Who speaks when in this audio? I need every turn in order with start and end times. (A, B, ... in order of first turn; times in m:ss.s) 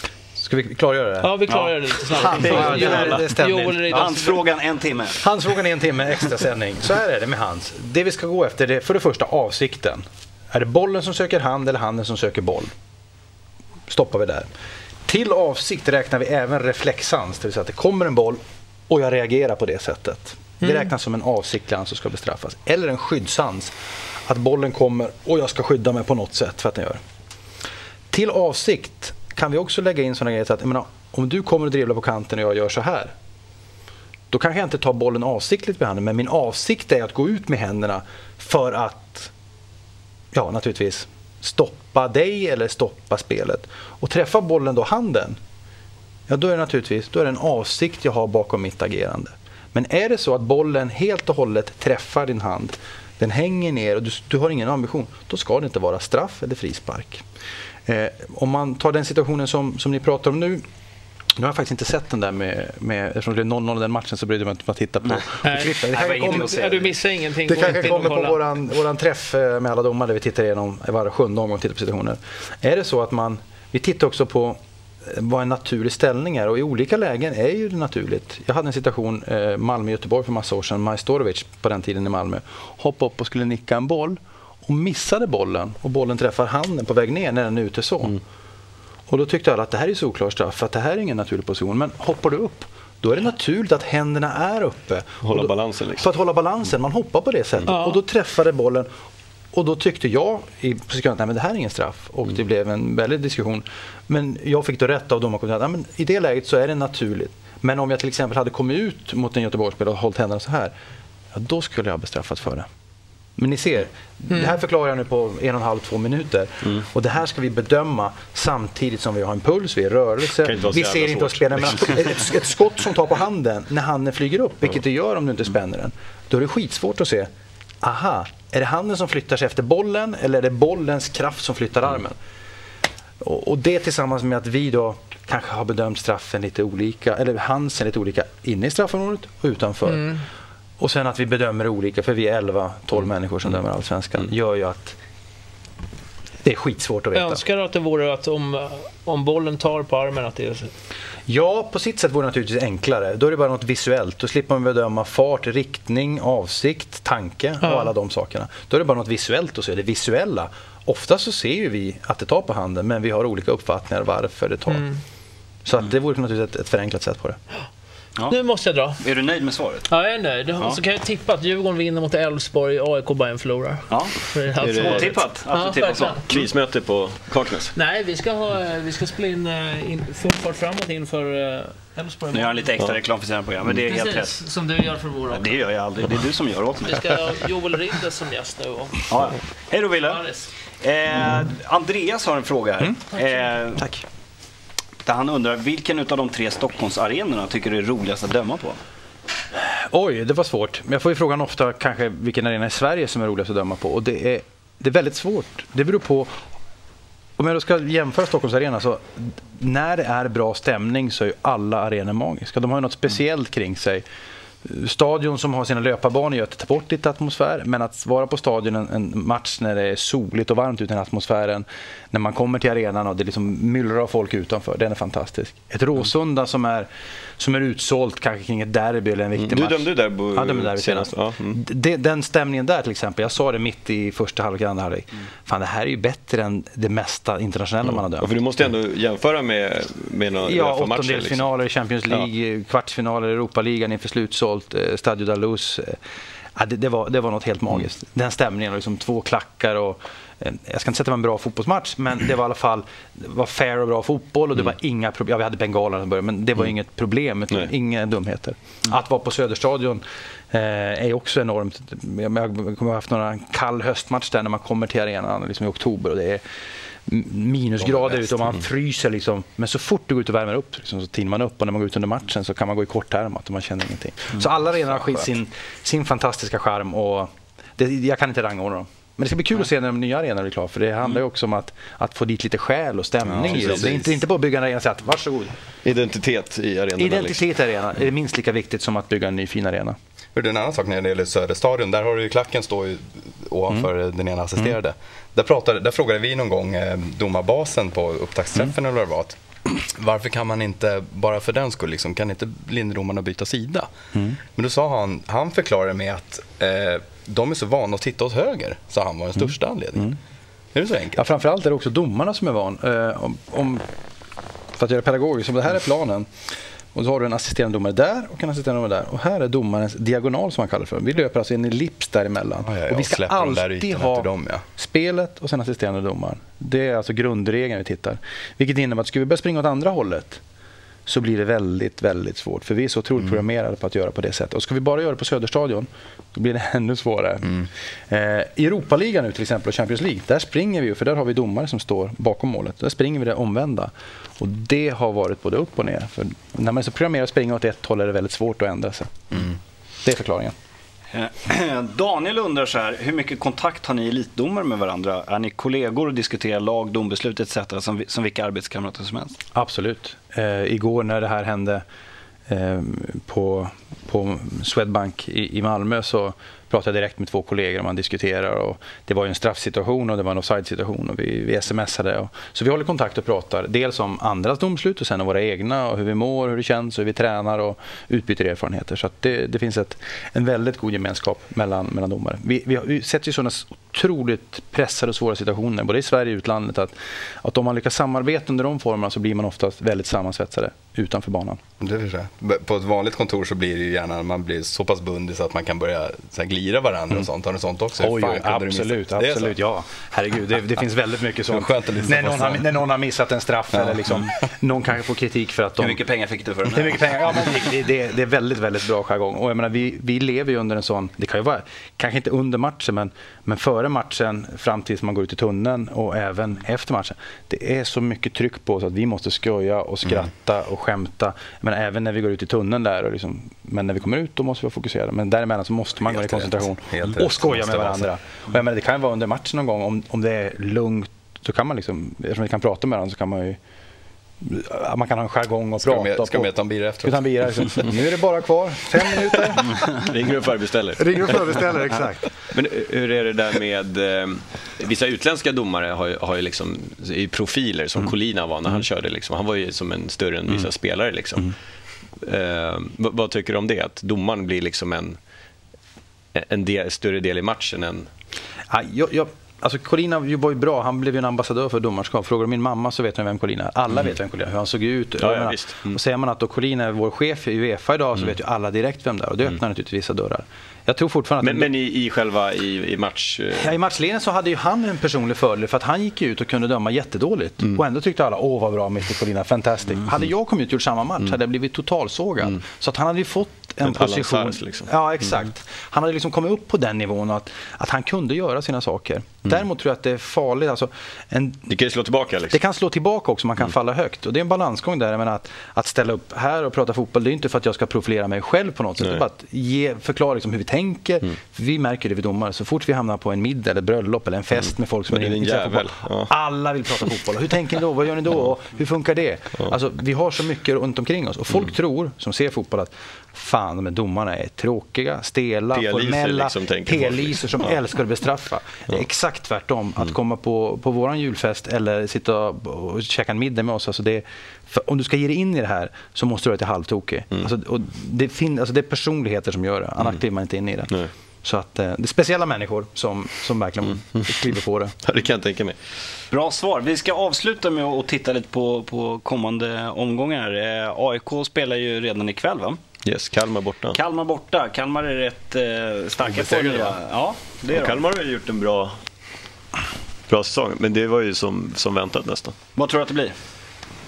0:00.4-0:04.4 A
0:01.2-0:04.2 B
0:02.4-0:03.3 C
0:02.9-0:03.3 D
0:03.8-0:05.2 C
0:05.2-0:12.7 A
0:13.9-0:14.5 A
0:15.0-0:23.7 A
0:20.6-0:20.9 B
0:24.3-0:27.0 A
0:28.1-0:33.1 A
0:34.3-0:39.3 A
0:40.3-0:45.4 A
0:46.3-0:57.2 A
0:57.9-1:00.6 A
1:01.4-1:06.5 A
1:05.4-1:05.8 B
1:05.9-1:07.0 C
1:06.4-1:08.4 B
1:07.4-1:28.2 A
1:29.1-1:38.9 A
1:35.2-1:36.1 D
1:37.7-1:38.0 B
1:39.5-1:50.7 A
1:51.3-1:52.7 A
1:53.4-2:07.3 A
2:00.4-2:02.0 D
2:07.8-2:12.2 A
2:13.2-2:20.2 A
2:19.8-2:20.2 B
2:20.8-2:25.0 A
2:26.4-2:27.4 A
2:27.1-2:30.7 B
2:31.3-2:44.9 A
2:37.6-2:37.9 B
2:44.7-2:45.0 B
2:45.6-2:47.4 A
2:48.3-2:49.0 B
2:49.0-2:49.9 C
2:49.9-2:56.3 B
2:53.9-2:56.2 C
2:54.6-2:55.1 D
2:56.2-2:57.7 D
2:57.7-3:02.8 B
3:02.3-3:04.5 C
3:03.8-3:05.6 B
3:05.3-3:07.3 C
3:06.8-3:09.1 B
3:09.1-3:13.8 C
3:10.0-3:10.5 B
3:12.8-3:13.0 A
3:13.7-3:14.0 A
3:15.0-3:18.8 C
3:19.5-3:26.3 A
3:27.4-3:34.0 A
3:34.6-3:58.3 A
3:49.4-3:51.6 D
3:57.9-4:01.5 D
4:00.4-4:06.0 A
4:06.6-4:26.4 A
4:27.1-4:45.5 A
4:43.4-4:44.0 E
4:43.6-4:43.9 D
4:45.8-4:47.4 D
4:47.0-4:50.0 A
4:50.3-5:03.9 E
5:04.1-5:04.4 A
5:04.6-5:10.1 E
5:10.7-5:11.2 E
5:11.1-5:13.8 A
5:14.8-5:16.3 A
5:16.9-5:30.4 A
5:22.6-5:24.6 E
5:31.0-5:49.5 A
5:50.0-5:50.5 A
5:51.1-5:59.4 C
5:59.5-6:01.8 A
6:02.5-6:31.6 A
6:31.8-6:39.5 E
6:38.0-6:46.0 A
6:41.5-6:42.6 E
6:43.7-6:44.1 E
6:45.8-6:47.0 C
6:46.6-7:13.6 A
7:06.1-7:08.1 E
7:14.4-7:19.8 A
7:15.8-7:17.2 E
7:19.8-7:21.8 D
7:21.0-7:22.2 A
7:22.5-7:31.5 D
7:32.2-7:35.2 D
7:36.3-7:38.1 D
7:38.7-7:51.7 A
7:45.2-7:46.0 D
7:51.4-7:53.7 D
7:53.6-8:11.7 A
8:03.8-8:05.3 D
8:11.7-8:12.6 D
8:12.5-8:54.9 A
8:25.1-8:26.3 D
8:35.7-8:37.7 D
8:55.0-8:55.8 D
8:56.3-9:02.8 C
9:03.0-9:04.0 D
9:03.9-9:08.1 C
9:06.3-9:07.0 D
9:07.7-9:09.0 D
9:10.3-9:12.5 D
9:12.7-9:13.3 C